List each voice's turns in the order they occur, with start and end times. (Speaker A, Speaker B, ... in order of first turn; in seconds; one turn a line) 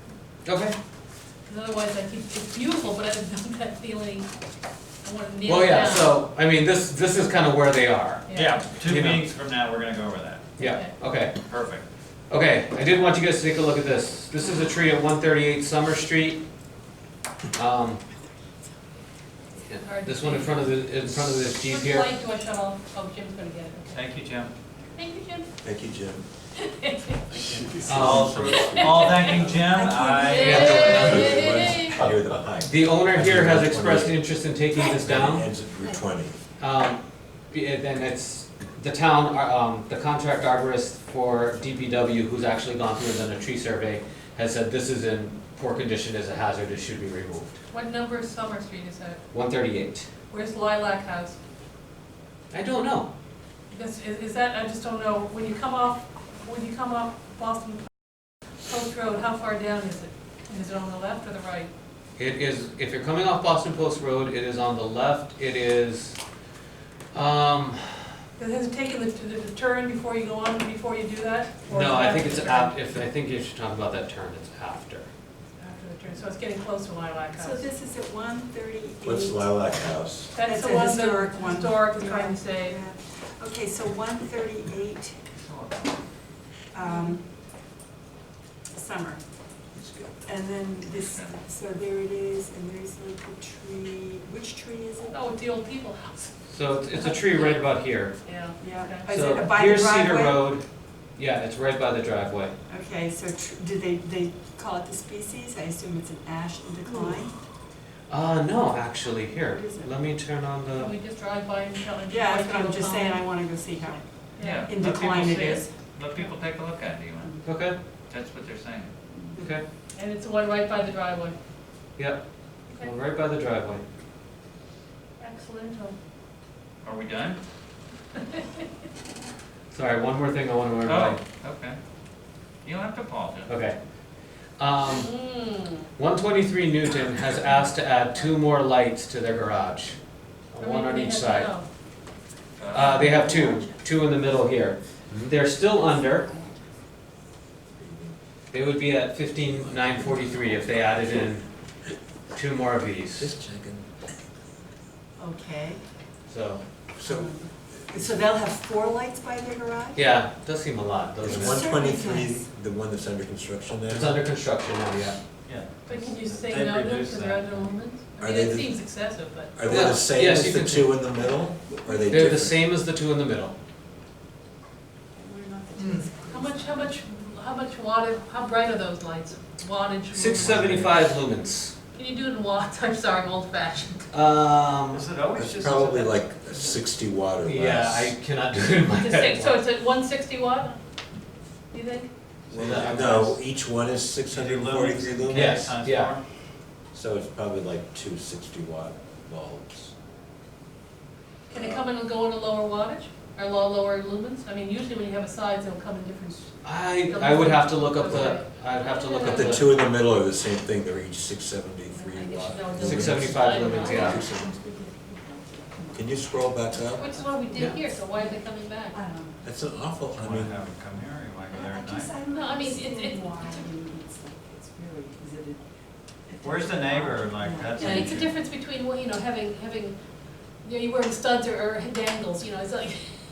Speaker A: 0.5-0.8
Speaker B: 1.5-4.3
Speaker B: 5.0-6.2
Speaker A: 5.5-9.2
Speaker B: 8.3-8.6
Speaker C: 8.3-10.5
Speaker A: 10.6-11.4
Speaker B: 10.6-10.9
Speaker C: 11.4-11.8
Speaker A: 12.3-16.4
Speaker A: 17.6-18.0
Speaker A: 19.6-22.1
Speaker B: 19.8-20.7
Speaker B: 21.6-24.1
Speaker C: 23.9-24.5
Speaker B: 25.0-25.5
Speaker D: 25.6-26.2
Speaker B: 26.6-27.8
Speaker D: 27.3-29.5
Speaker A: 27.8-28.3
Speaker C: 27.9-31.1
Speaker B: 28.4-32.0
Speaker E: 29.9-30.6
Speaker A: 30.4-31.7
Speaker D: 31.0-34.2
Speaker A: 32.7-35.5
Speaker D: 34.8-36.4
Speaker A: 36.6-37.0
Speaker A: 37.5-47.6
Speaker B: 47.7-49.2
Speaker A: 49.3-50.1
Speaker B: 50.3-51.4
Speaker A: 52.5-53.1
Speaker B: 53.7-57.9
Speaker B: 58.7-61.7
Speaker A: 62.2-66.2
Speaker A: 67.1-68.1
Speaker B: 68.4-72.8
Speaker A: 71.7-75.1
Speaker B: 75.6-77.7
Speaker E: 77.4-79.5
Speaker D: 79.0-80.3
Speaker B: 80.3-82.8
Speaker E: 80.4-85.2
Speaker C: 85.4-85.8
Speaker E: 86.7-87.2
Speaker B: 86.8-87.2
Speaker E: 88.7-89.2
Speaker D: 89.8-90.1
Speaker E: 90.2-95.2
Speaker C: 90.9-91.3
Speaker B: 95.0-96.3
Speaker A: 96.5-98.1
Speaker B: 96.9-97.6
Speaker B: 98.2-99.1
Speaker E: 98.6-100.5
Speaker A: 99.1-100.6
Speaker A: 101.2-102.5
Speaker E: 102.7-107.3
Speaker B: 106.9-107.2
Speaker A: 108.1-110.9
Speaker E: 109.5-109.9
Speaker B: 110.7-113.2
Speaker E: 112.1-114.0
Speaker B: 114.4-114.7
Speaker C: 114.4-117.4
Speaker E: 114.6-115.7
Speaker A: 117.4-117.8
Speaker C: 118.1-118.9
Speaker E: 119.2-119.5
Speaker A: 119.4-119.6
Speaker B: 119.9-121.4
Speaker A: 122.0-122.2
Speaker A: 122.8-123.8
Speaker B: 125.2-126.0
Speaker C: 126.8-127.4
Speaker A: 129.7-131.2
Speaker C: 130.8-131.8
Speaker C: 132.6-133.5
Speaker A: 133.5-133.8
Speaker A: 134.6-135.1
Speaker B: 134.8-135.9
Speaker A: 136.0-140.0
Speaker A: 140.5-141.5
Speaker B: 140.6-141.7
Speaker C: 142.6-143.3
Speaker A: 142.7-146.3
Speaker E: 142.9-143.8
Speaker D: 145.1-145.3
Speaker E: 145.7-146.6
Speaker D: 147.8-148.2
Speaker A: 148.5-151.5
Speaker D: 149.5-151.0
Speaker A: 152.3-153.3
Speaker D: 153.2-153.9
Speaker E: 155.2-155.8
Speaker A: 156.3-156.6
Speaker D: 157.0-158.3
Speaker E: 157.0-160.2
Speaker A: 159.9-161.8
Speaker D: 161.2-164.2
Speaker E: 161.2-162.5
Speaker A: 163.9-165.2
Speaker C: 165.5-167.7
Speaker B: 165.9-169.8
Speaker D: 168.2-168.8
Speaker D: 169.5-172.7
Speaker A: 169.6-171.0
Speaker E: 171.7-172.3
Speaker A: 172.1-173.5
Speaker E: 175.2-176.9
Speaker B: 176.3-180.9
Speaker A: 180.1-181.8
Speaker B: 181.9-184.0
Speaker A: 184.1-185.1
Speaker C: 184.9-186.8
Speaker D: 185.3-188.2
Speaker A: 187.4-189.6
Speaker B: 188.9-190.8
Speaker B: 191.7-192.1
Speaker D: 192.5-195.7
Speaker A: 192.5-193.4
Speaker C: 194.3-196.2
Speaker A: 195.3-196.1
Speaker D: 196.9-199.9
Speaker B: 201.5-209.8
Speaker D: 201.5-201.8
Speaker A: 206.6-209.7
Speaker D: 208.1-208.3
Speaker D: 209.4-214.5
Speaker B: 211.9-214.2
Speaker A: 212.8-214.2
Speaker E: 213.6-217.2
Speaker D: 215.9-217.1
Speaker B: 217.0-219.0
Speaker E: 218.2-219.4
Speaker D: 219.4-220.6
Speaker C: 220.1-222.2
Speaker E: 221.5-225.6
Speaker B: 222.3-223.7
Speaker E: 226.3-228.2
Speaker C: 226.4-228.3
Speaker B: 227.8-229.9
Speaker B: 230.6-233.2